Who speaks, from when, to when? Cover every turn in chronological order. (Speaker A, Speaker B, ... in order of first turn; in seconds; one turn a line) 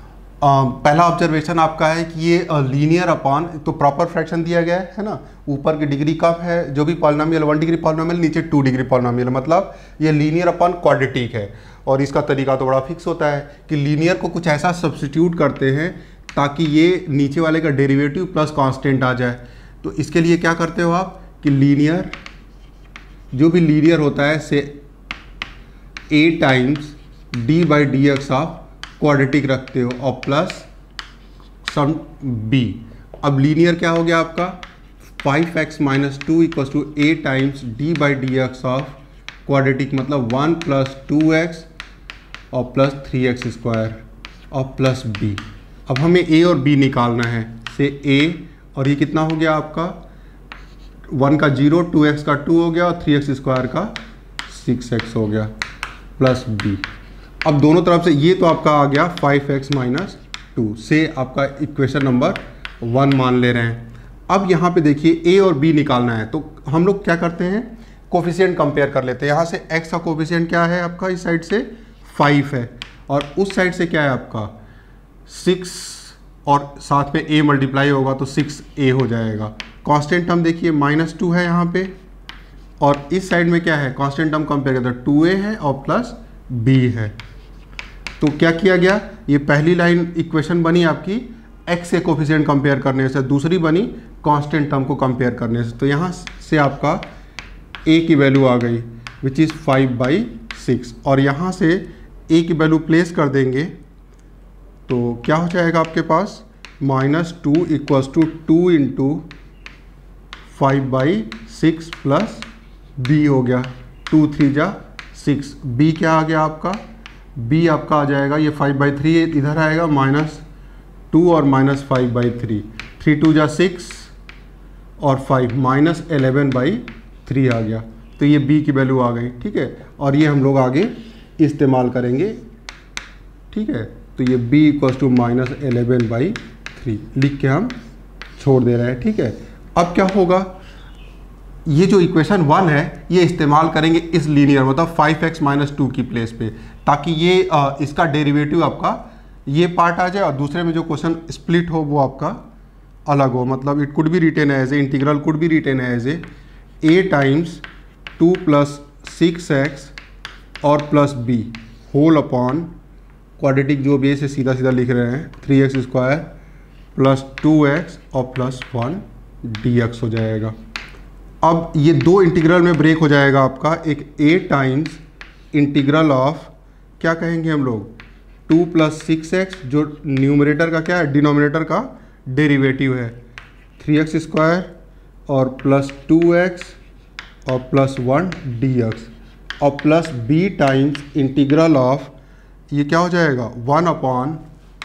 Speaker A: 0.4-22.1
Speaker A: 23.3-24.8
Speaker A: 26.1-30.7
Speaker A: 31.6-34.6
Speaker A: 35.2-41.7
Speaker A: 42.5-50.0
Speaker A: 51.1-53.9
Speaker A: 54.5-55.5
Speaker A: 56.2-56.8
Speaker A: 57.4-74.5
Speaker A: 75.3-81.9
Speaker A: 82.8-87.1
Speaker A: 88.2-97.0
Speaker A: 97.8-103.7
Speaker A: 104.9-109.3
Speaker A: 110.5-112.5
Speaker A: 113.0-116.8
Speaker A: 117.3-120.4
Speaker A: 121.1-124.1
Speaker A: 125.0-132.4
Speaker A: 133.5-137.7
Speaker A: 138.4-140.5
Speaker A: 141.7-152.4
Speaker A: 153.1-156.2
Speaker A: 156.8-157.6
Speaker A: 158.2-159.9
Speaker A: 160.6-162.7
Speaker A: 163.4-166.3
Speaker A: 166.9-170.5
Speaker A: 171.4-175.0
Speaker A: 175.5-177.9
Speaker A: 178.5-183.2
Speaker A: 183.8-184.7
Speaker A: 185.3-186.8
Speaker A: 187.4-189.1
Speaker A: 189.6-192.1
Speaker A: 192.7-194.4